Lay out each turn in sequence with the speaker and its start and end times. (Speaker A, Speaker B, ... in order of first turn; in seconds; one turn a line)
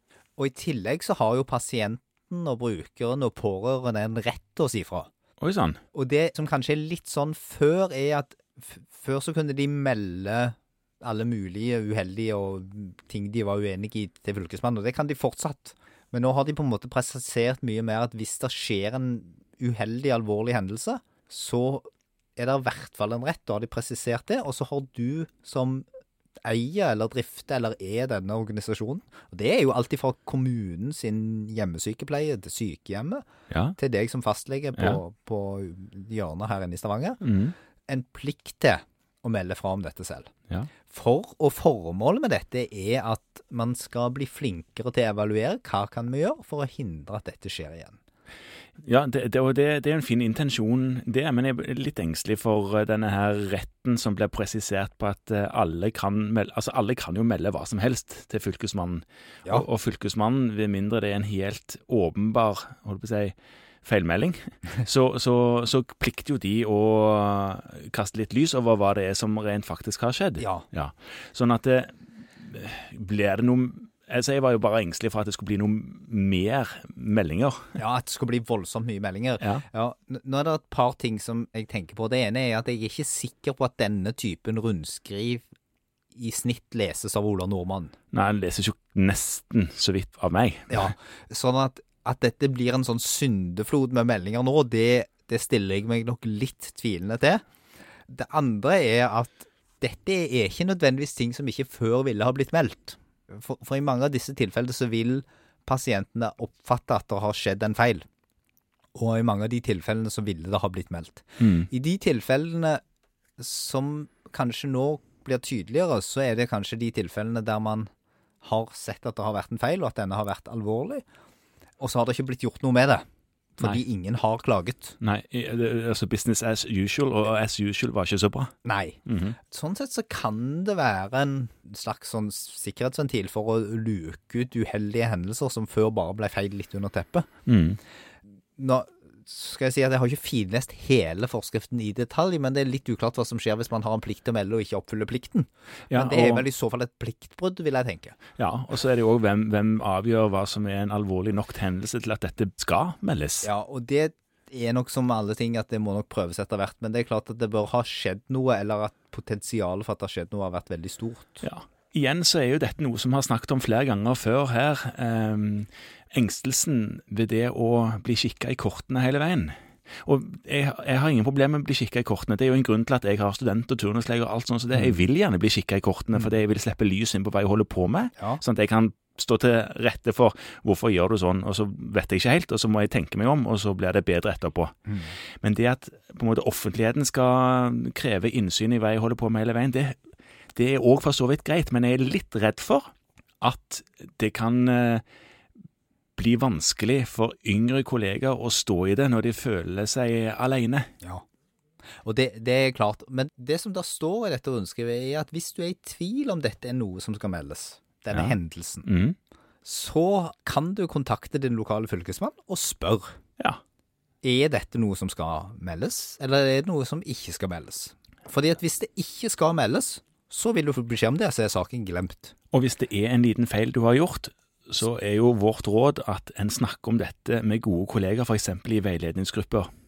Speaker A: 0.4-5.1
Speaker B: 5.4-5.8
Speaker A: 5.9-25.9
Speaker A: 26.4-33.2
Speaker B: 33.5-33.8
Speaker A: 33.8-37.2
Speaker B: 37.2-37.5
Speaker A: 37.9-40.3
Speaker A: 40.9-48.0
Speaker B: 48.8-77.8
Speaker A: 70.4-70.7
Speaker A: 77.8-85.5
Speaker A: 86.1-87.9
Speaker B: 88.1-90.9
Speaker A: 90.7-97.4
Speaker A: 98.1-108.0
Speaker A: 108.9-112.8
Speaker B: 111.4-111.7
Speaker A: 113.4-117.9
Speaker A: 118.4-121.0
Speaker A: 121.8-123.0
Speaker A: 123.6-125.0
Speaker B: 125.0-128.5
Speaker A: 128.6-137.3
Speaker B: 129.1-129.3
Speaker B: 137.5-137.8
Speaker A: 138.6-148.2
Speaker B: 145.9-146.4
Speaker B: 148.4-153.5
Speaker A: 153.4-161.5
Speaker B: 161.4-184.7
Speaker A: 178.2-178.4
Speaker A: 184.8-185.1
Speaker B: 185.3-190.0
Speaker B: 190.5-195.0
Speaker B: 196.2-200.9
Speaker A: 202.0-208.9
Speaker B: 208.1-209.2
Speaker A: 209.6-213.2
Speaker A: 214.2-222.3
Speaker B: 222.5-229.7